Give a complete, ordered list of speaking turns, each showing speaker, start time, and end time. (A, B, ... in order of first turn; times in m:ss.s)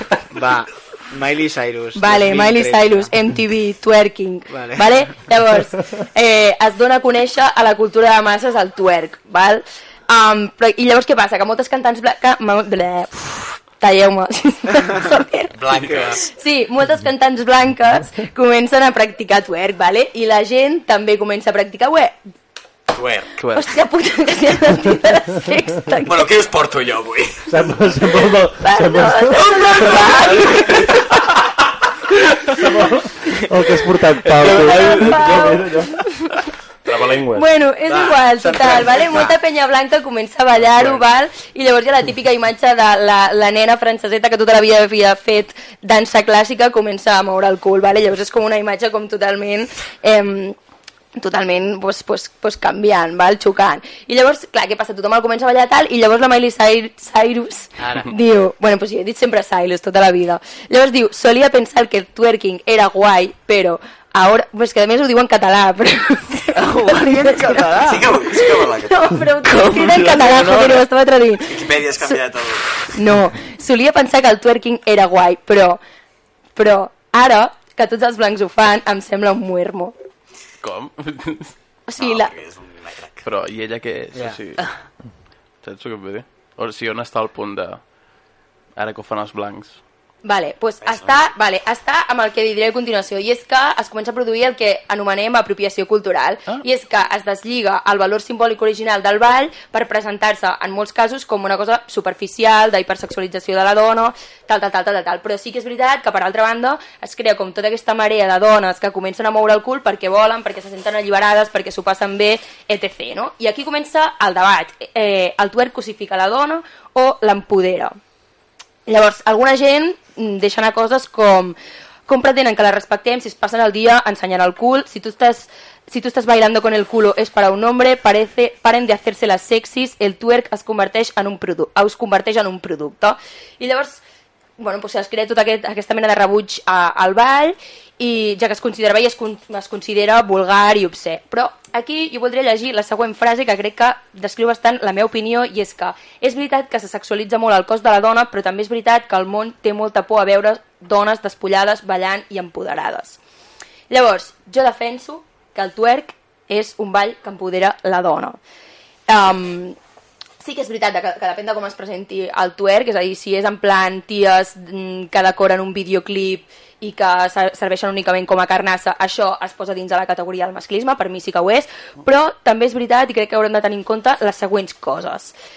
0:00.3-0:03.1 A
0:01.9-0:15.6 B
0:04.5-0:05.2 A
0:15.6-0:16.2 C
0:15.8-0:16.2 A
0:16.3-0:22.2 B
0:23.0-0:23.3 C
0:23.4-0:23.7 D
0:23.5-0:26.4 B
0:26.1-0:27.5 C
0:27.5-0:30.0 E
0:28.6-0:30.9 B
0:32.5-0:36.0 E
0:34.4-0:36.4 B
0:36.9-0:37.4 E
0:37.3-0:50.6 B
0:37.8-0:39.4 A
0:51.2-1:12.3 B
0:57.8-0:58.1 A
1:06.5-1:08.1 A
1:07.9-1:08.9 C
1:10.3-1:10.7 A
1:11.6-1:12.6 C
1:12.9-1:15.8 B
1:16.6-1:19.9 B
1:20.6-1:21.5 D
1:21.9-1:22.3 B
1:22.0-1:23.1 C
1:23.2-1:24.7 D
1:24.1-1:24.6 A
1:25.6-1:27.8 D
1:28.8-1:29.8 D
1:30.2-1:58.0 B
1:58.9-2:14.0 B
2:14.6-2:33.2 B
2:33.9-2:38.4 B
2:39.1-2:39.8 B
2:40.4-2:55.3 B